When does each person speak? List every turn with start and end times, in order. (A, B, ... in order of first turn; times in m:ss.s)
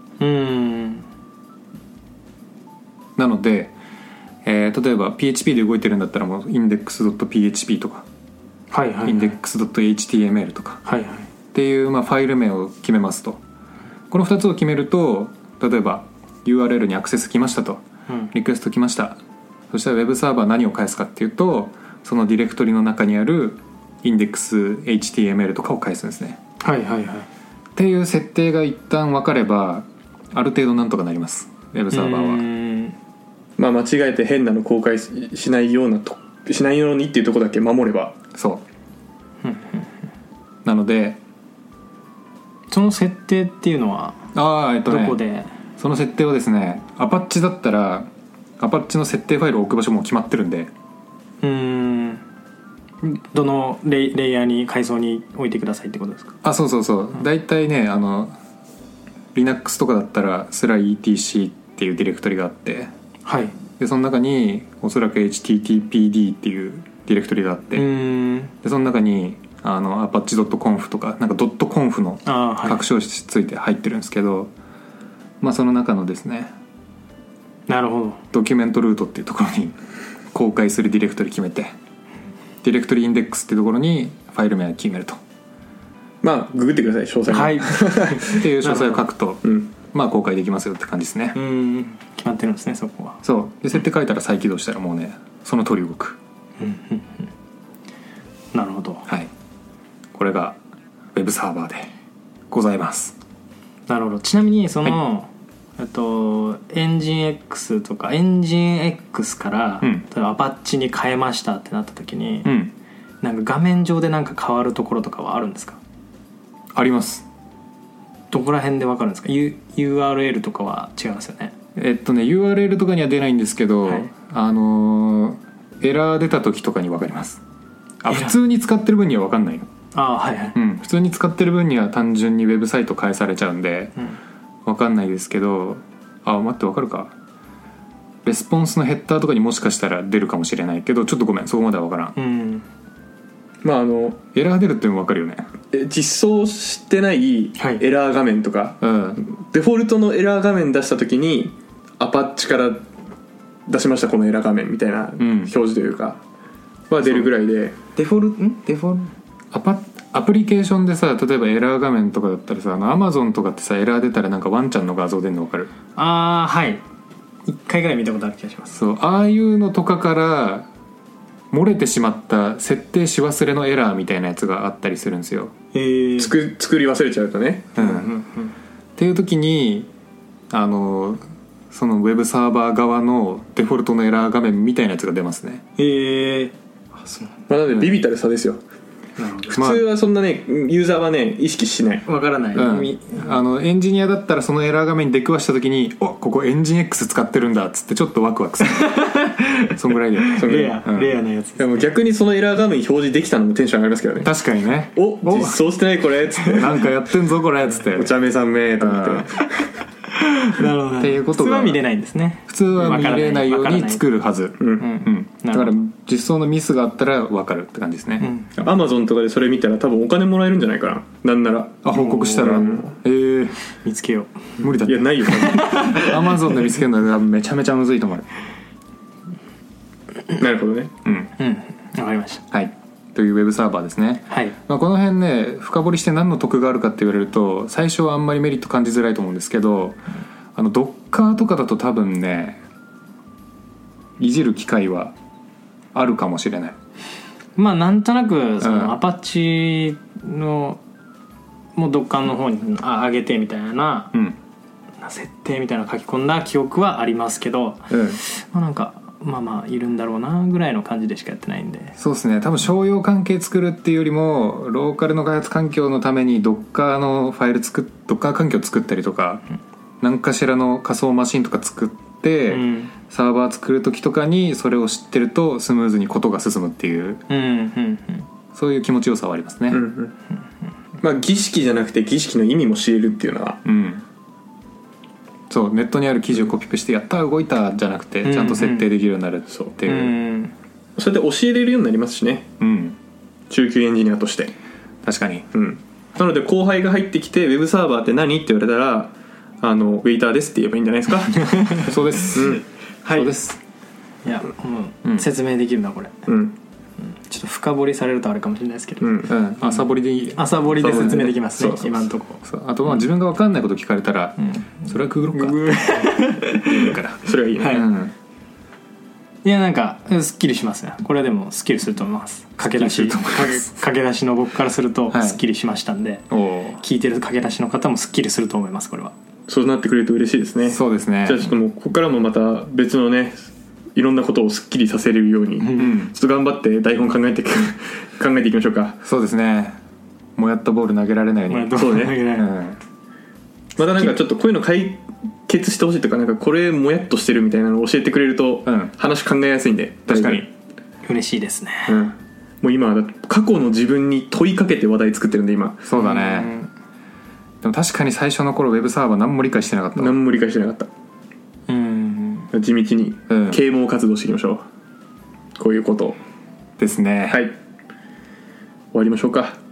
0:00.2-0:01.1 A
0:03.2-0:03.8 B
0:04.4-0:08.1 B
0:08.7-0:09.4 A
0:09.0-0:10.8 B
0:10.9-0:11.3 A
0:11.5-0:13.4 B
0:14.1-0:19.2 B
0:19.7-0:26.4 B
0:26.6-0:27.3 A
0:27.8-0:32.4 B
0:31.9-0:33.0 A
0:33.6-0:38.2 C
0:38.4-0:38.6 B
0:39.4-0:39.9 A
0:40.6-0:41.2 B
0:42.7-0:44.2 A
0:44.4-0:45.2 B
0:44.8-0:45.5 A
0:45.8-0:48.1 B
0:48.6-0:50.7 B
0:51.4-0:52.2 A
0:53.0-0:56.4 A
0:56.4-0:58.4 B
0:59.3-1:02.9 B
1:03.2-1:03.6 A
1:03.8-1:07.9 B
1:07.8-1:08.5 A
1:08.6-1:14.5 B
1:12.3-1:12.8 A
1:15.4-1:16.5 B
1:17.7-1:18.2 A
1:18.3-1:19.8 B
1:20.3-1:21.7 B
1:22.6-1:25.2 B
1:26.2-1:28.4 C
1:27.3-1:29.0 A
1:28.3-1:31.4 B
1:29.4-1:29.7 C
1:31.4-1:33.2 A
1:33.2-1:36.2 B
1:36.6-1:37.3 A
1:38.5-1:39.0 A
1:40.2-1:40.6 B
1:41.1-1:41.9 B
1:42.5-1:43.2 B
1:43.9-1:52.5 A
1:52.4-1:52.7 B
1:53.2-1:55.8 A
1:56.7-1:57.3 B
1:58.3-2:01.5 A
2:01.8-2:07.4 B
2:08.0-2:09.7 B
2:08.1-2:08.3 A
2:09.9-2:10.6 A
2:10.5-2:14.0 B
2:14.7-2:17.1 B
2:18.2-2:22.2 B
2:22.2-2:22.6 A
2:23.6-2:24.2 C
2:24.3-2:25.5 B
2:25.7-2:32.9 C
2:27.6-2:27.8 A
2:28.8-2:29.2 B
2:33.7-2:36.2 C
2:35.2-2:35.5 B
2:36.9-2:37.8 C
2:38.0-2:39.1 A
2:39.5-2:45.7 B
2:46.0-2:46.8 A
2:47.5-2:48.8 A
2:48.7-2:50.7 B
2:51.5-2:55.6 B
2:55.7-2:56.4 A
2:56.2-2:57.8 C
2:57.8-2:58.1 B
2:57.8-2:58.5 A
2:59.0-2:59.9 B
3:00.5-3:05.6 B
3:05.8-3:07.4 A
3:07.5-3:08.6 C
3:07.7-3:08.0 B
3:09.2-3:09.5 A
3:09.5-3:12.1 C
3:09.6-3:09.8 B
3:12.1-3:13.4 A
3:12.6-3:19.0 B
3:18.6-3:21.9 A
3:19.8-3:21.2 B
3:20.3-3:20.9 C
3:21.6-3:24.3 C
3:24.2-3:25.6 B
3:24.9-3:26.9 C
3:26.4-3:28.1 B
3:27.9-3:29.5 C
3:28.8-3:29.3 B
3:30.2-3:34.0 A
3:31.0-3:31.8 B
3:32.5-3:38.3 B
3:34.6-3:34.9 C
3:34.8-3:35.8 A
3:38.2-3:38.6 A
3:38.6-3:43.0 C
3:41.8-3:43.6 B
3:41.9-3:42.5 A
3:43.8-3:44.3 A
3:44.6-3:46.1 C
3:44.6-3:48.3 B
3:45.4-3:46.2 A
3:50.3-3:50.9 C
3:51.0-3:51.3 B
3:51.4-3:52.4 A
3:52.5-4:02.6 B
3:54.3-3:54.6 A
4:04.2-4:05.1 B
4:05.9-4:06.8 B
4:07.6-4:10.8 A
4:08.6-4:09.0 B
4:11.8-4:14.1 A
4:15.0-4:21.9 A
4:17.9-4:18.2 B
4:22.0-4:29.4 B
4:30.0-4:37.2 B
4:32.5-4:32.9 A
4:37.3-4:38.3 A
4:38.5-4:39.8 B
4:39.7-4:40.1 C
4:41.0-4:43.6 C
4:43.6-4:44.0 B
4:45.5-4:50.2 B
4:48.2-4:48.9 A
4:49.8-4:50.5 A
4:51.0-4:52.5 C
4:52.6-4:53.0 B
4:53.5-4:54.5 C
4:55.0-4:55.5 B
4:55.5-5:02.6 C
5:01.4-5:01.8 A
5:01.8-5:03.6 B
5:03.0-5:03.3 A
5:04.2-5:06.2 A
5:06.3-5:06.6 C
5:07.0-5:09.8 A
5:09.0-5:09.3 C
5:09.3-5:11.3 B
5:10.4-5:13.0 A
5:10.8-5:12.1 C
5:12.4-5:16.0 B
5:14.4-5:14.7 A
5:15.3-5:17.0 A
5:16.6-5:18.1 B
5:17.2-5:17.8 C
5:17.6-5:17.9 A
5:19.4-5:29.1 A
5:22.7-5:23.7 B
5:25.1-5:25.4 B
5:26.3-5:26.8 B
5:29.5-5:39.0 C
5:30.7-5:31.5 B
5:35.6-5:36.0 A
5:35.8-5:36.1 B
5:39.0-5:39.8 B
5:40.4-5:42.8 B
5:41.5-5:42.5 A
5:41.8-5:42.2 C
5:43.8-5:50.4 C
5:48.7-5:48.9 B
5:50.1-5:50.5 B
5:51.0-5:52.0 A
5:51.9-5:55.9 C
5:55.8-5:56.5 B
5:55.9-5:56.7 A
5:57.6-6:00.2 B
6:00.0-6:00.9 C
6:01.7-6:02.5 A
6:02.5-6:04.6 C
6:03.3-6:03.6 B
6:05.6-6:06.2 C
6:06.8-6:07.5 B
6:07.3-6:07.6 C
6:08.9-6:09.6 C